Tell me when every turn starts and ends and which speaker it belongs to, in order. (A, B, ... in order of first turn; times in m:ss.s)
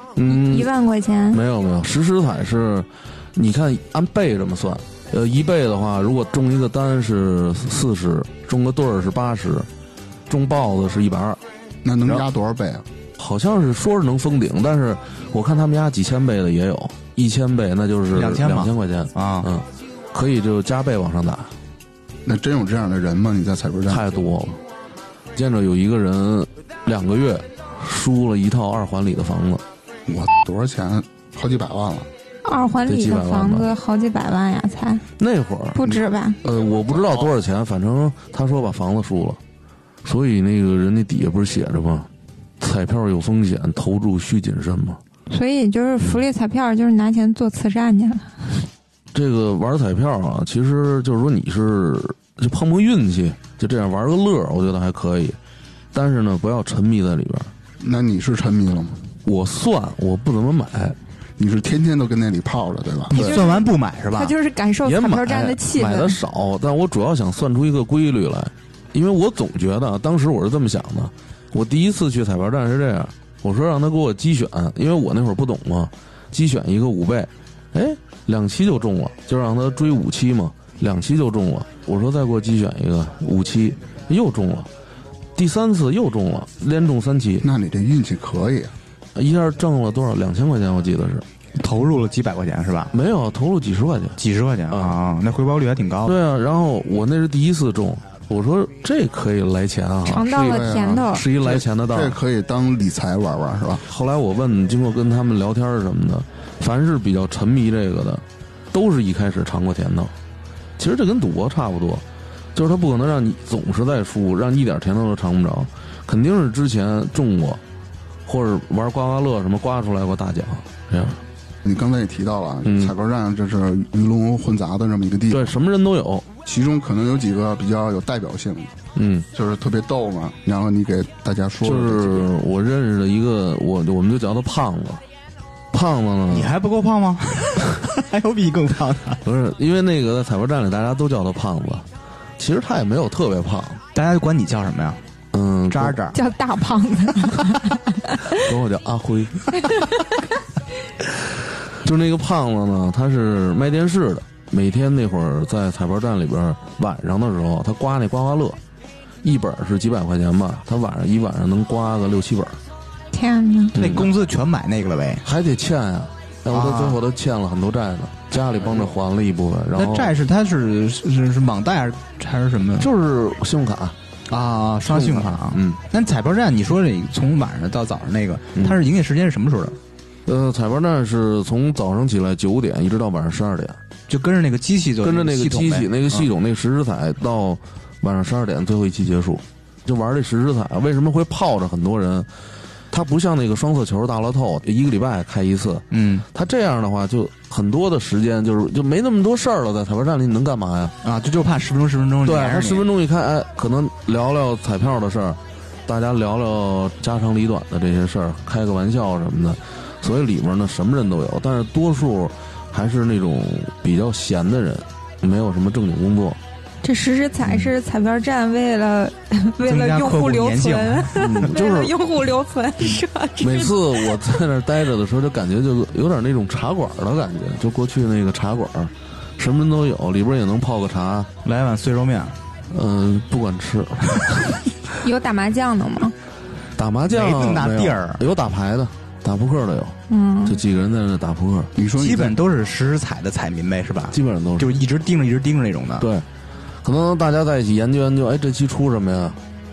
0:00.2-0:00.7 A
0:00.3-0:01.4 B
0:01.3-0:09.7 A
0:10.3-0:11.4 A
0:11.8-0:12.8 C
0:13.2-0:21.5 A
0:18.1-0:19.5 D
0:22.2-0:24.2 C
0:23.9-0:24.6 A
0:25.4-0:29.6 A
0:30.1-0:32.1 C
0:32.4-0:35.0 B
0:32.9-0:33.7 A
0:35.2-0:35.8 A
0:35.8-0:36.4 B
0:36.4-0:39.4 A
0:36.9-0:37.3 C
0:40.0-0:42.1 A
0:42.6-0:45.0 A
0:45.3-0:48.4 B
0:49.1-0:55.4 A
0:55.9-0:57.5 A
0:57.8-0:59.0 C
0:59.2-1:01.0 A
1:01.4-1:03.2 C
1:03.1-1:04.3 D
1:03.1-1:03.4 A
1:03.2-1:06.2 B
1:04.8-1:24.7 A
1:25.4-1:27.5 A
1:27.4-1:28.7 C
1:29.2-1:31.2 A
1:31.6-1:32.9 D
1:32.9-1:34.2 A
1:34.2-1:36.2 D
1:34.7-1:35.0 A
1:36.0-1:42.2 A
1:40.1-1:41.3 B
1:40.4-1:43.8 C
1:43.9-1:50.1 A
1:50.8-1:52.0 A
1:52.6-1:57.6 A
1:58.2-2:01.2 A
2:01.6-2:05.6 C
2:02.6-2:02.9 A
2:05.3-2:06.3 A
2:06.5-2:08.7 C
2:09.0-2:09.3 A
2:09.3-2:12.3 C
2:11.6-2:15.0 A
2:15.7-2:16.6 A
2:16.3-2:19.2 D
2:19.2-2:21.9 A
2:22.4-2:23.8 A
2:24.0-2:25.0 D
2:25.3-2:26.0 A
2:25.7-2:26.2 D
2:26.1-2:28.3 B
2:28.3-2:29.6 A
2:31.7-2:38.6 A
2:39.2-2:42.6 A
2:43.1-2:43.8 B
2:43.7-2:45.2 D
2:43.8-2:44.1 A
2:45.2-2:50.2 A
2:46.5-2:47.0 D
2:49.8-2:52.9 D
2:52.8-2:54.0 A
2:54.3-2:59.8 D
2:54.9-2:55.8 A
2:58.6-2:58.8 A
3:00.3-3:03.8 A
3:04.1-3:06.2 D
3:05.0-3:12.3 A
3:12.9-3:20.9 A
3:15.9-3:16.2 D
3:21.0-3:22.9 D
3:22.2-3:36.4 A
3:36.8-3:44.1 B
3:39.6-3:41.3 D
3:41.2-3:42.0 A
3:43.4-3:51.3 A
3:51.4-3:52.4 D
3:52.7-3:54.6 A
3:55.0-3:56.1 B
3:56.8-4:01.7 A
3:57.1-3:58.2 D
4:00.1-4:00.6 B
4:01.8-4:02.4 C
4:02.0-4:06.1 D
4:04.1-4:04.8 A
4:06.0-4:06.3 A
4:06.8-4:09.4 A